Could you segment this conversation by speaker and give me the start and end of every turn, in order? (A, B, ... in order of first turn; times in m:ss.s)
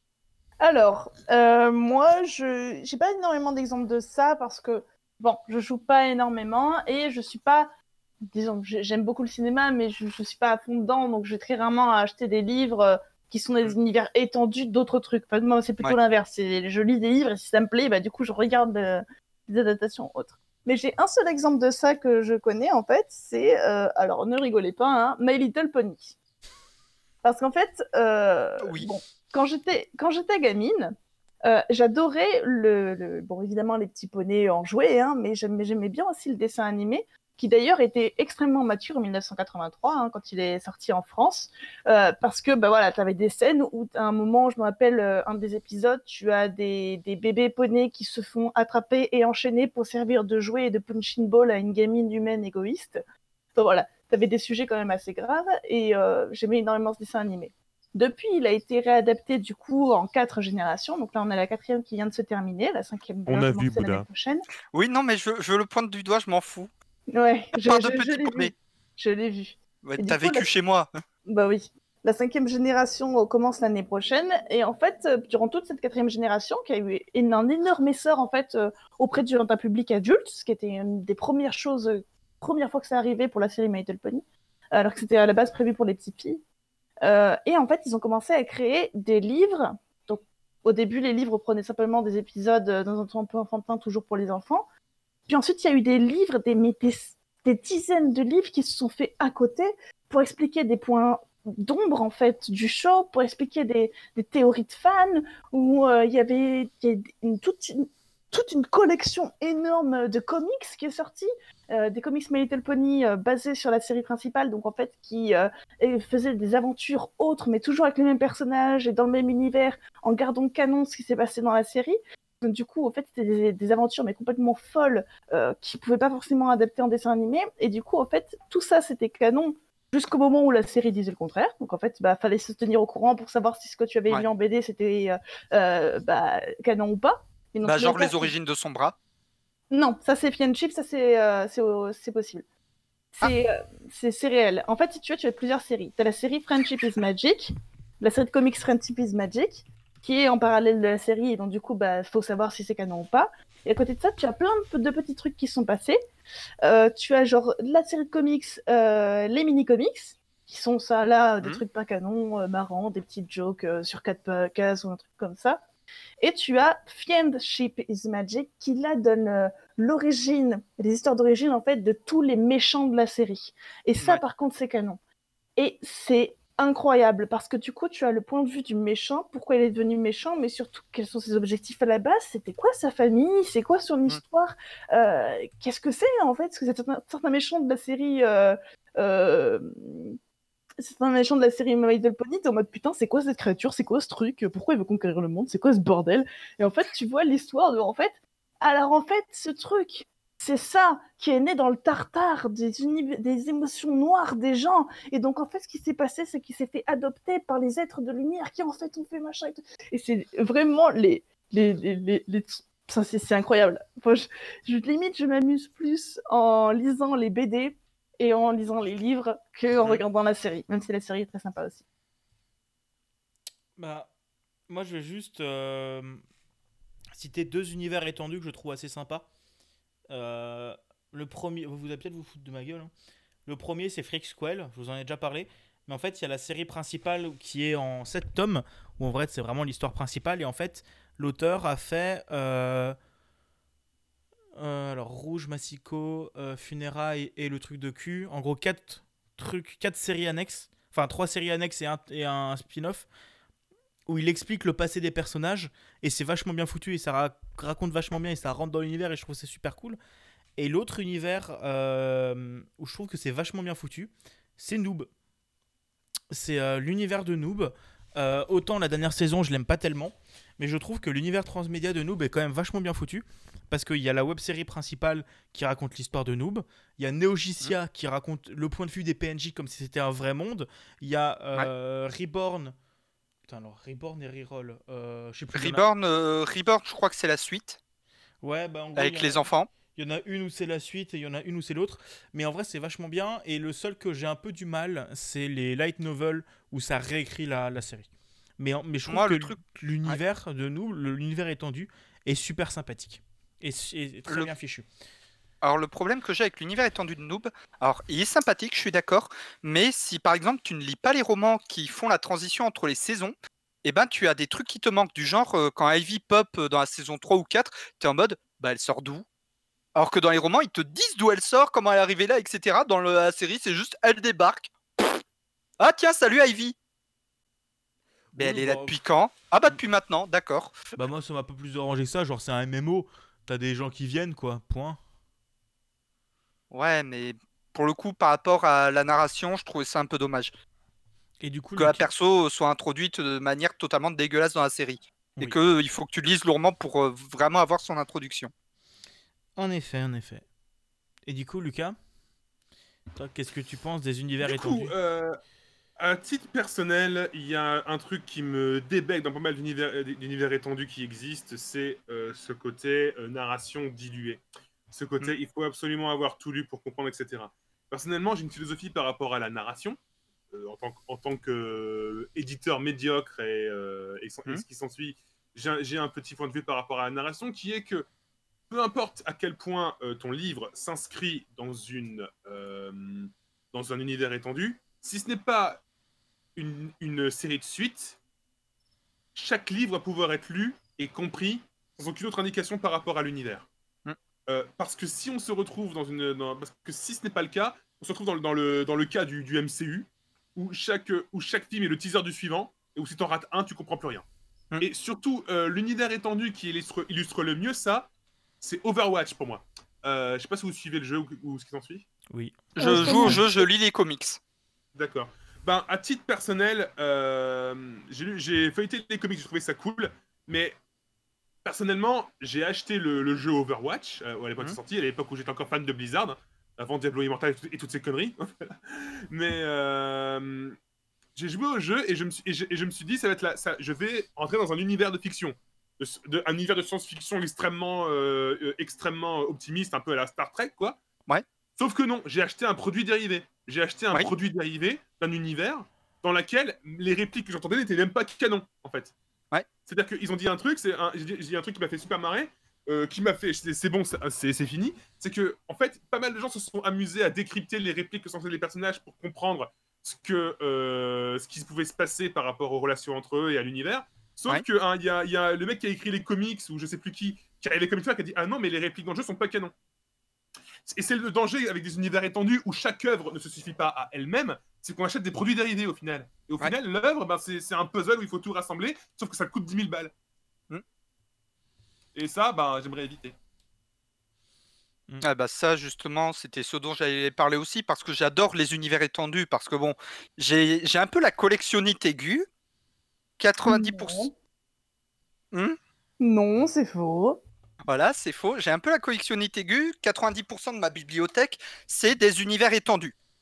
0:00.6-0:07.7 A
0:08.3-0:26.2 A
0:27.2-0:53.0 A
0:28.6-0:28.9 B
0:53.6-1:04.4 A
1:03.3-1:04.0 C
1:04.7-1:06.7 B
1:07.1-1:10.5 A
1:07.5-1:08.5 B
1:09.8-1:10.9 B
1:11.2-1:26.4 A
1:27.0-1:34.6 A
1:35.3-2:18.3 A
2:17.6-2:18.9 B
2:19.7-2:22.4 A
2:23.2-2:36.0 A
2:36.6-2:45.6 A
2:46.2-2:55.0 A
2:55.6-3:10.2 A
3:10.8-3:41.8 A
3:43.8-3:44.1 D
3:44.7-3:46.2 D
3:47.1-3:49.3 D
3:50.1-3:52.9 D
3:53.4-4:03.0 D
4:04.6-4:13.1 D
4:14.1-4:20.0 D
4:20.6-4:25.1 D
4:26.3-4:42.7 D
4:43.5-4:45.8 D
4:45.5-4:47.8 B
4:48.4-4:49.4 D
4:49.0-4:49.7 B
4:49.9-4:58.1 D
4:58.6-5:04.8 D
4:59.1-5:00.2 B
5:05.6-5:19.2 B
5:19.9-5:25.2 B
5:25.8-5:26.8 B
5:28.3-5:28.9 D
5:28.3-5:30.8 B
5:31.0-5:35.0 D
5:36.7-5:40.5 B
5:41.4-5:42.1 D
5:41.8-5:48.5 B
5:49.6-5:50.4 D
5:51.3-5:52.0 D
5:53.2-5:54.9 D
5:54.4-5:55.4 C
5:56.0-6:10.0 C
6:10.5-6:18.0 C
6:18.7-6:25.8 C
6:26.6-6:28.2 C
6:29.3-6:33.7 C
6:34.5-6:44.2 C
6:44.8-6:48.1 C
6:48.6-6:52.0 C
6:52.3-6:53.4 D
6:52.8-6:53.7 A
6:52.8-6:54.4 B
6:54.9-7:00.7 C
7:01.6-7:10.8 C
7:11.4-7:21.0 C
7:21.8-7:29.1 C
7:29.8-7:49.7 C
7:50.9-8:00.1 C
8:02.1-8:03.3 C
8:05.2-8:12.5 B
8:13.4-8:14.2 B
8:13.6-8:14.3 A
8:16.2-8:17.4 A
8:17.9-8:23.1 B